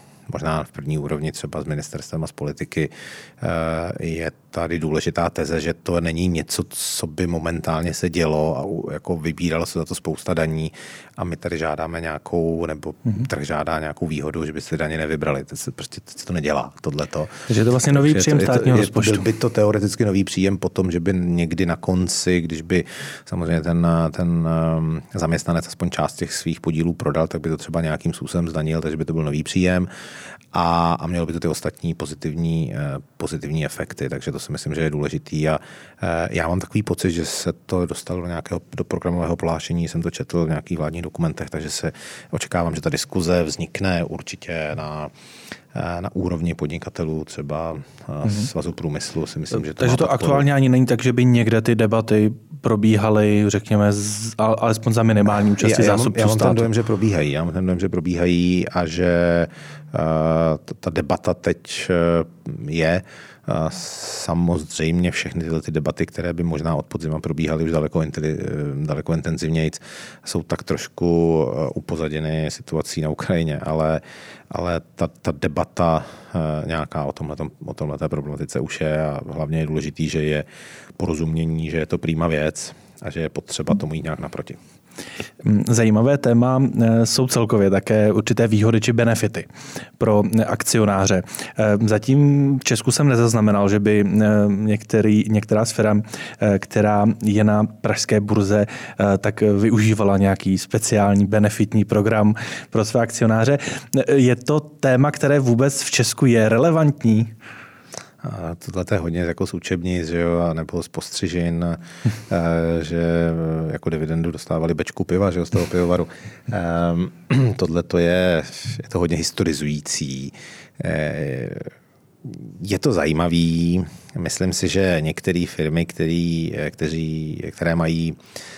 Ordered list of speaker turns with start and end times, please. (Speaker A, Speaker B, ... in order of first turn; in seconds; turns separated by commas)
Speaker A: 0.3-29.9, Speaker B: 17.5-19.3, Speaker A: 30.5-45.1, Speaker A: 45.7-50.5, Speaker B: 49.7-56.7, Speaker A: 55.6-80.5, Speaker A: 81.0-84.6, Speaker B: 85.4-89.5, Speaker B: 90.0-107.3, Speaker A: 108.2-121.7, Speaker A: 122.2-128.2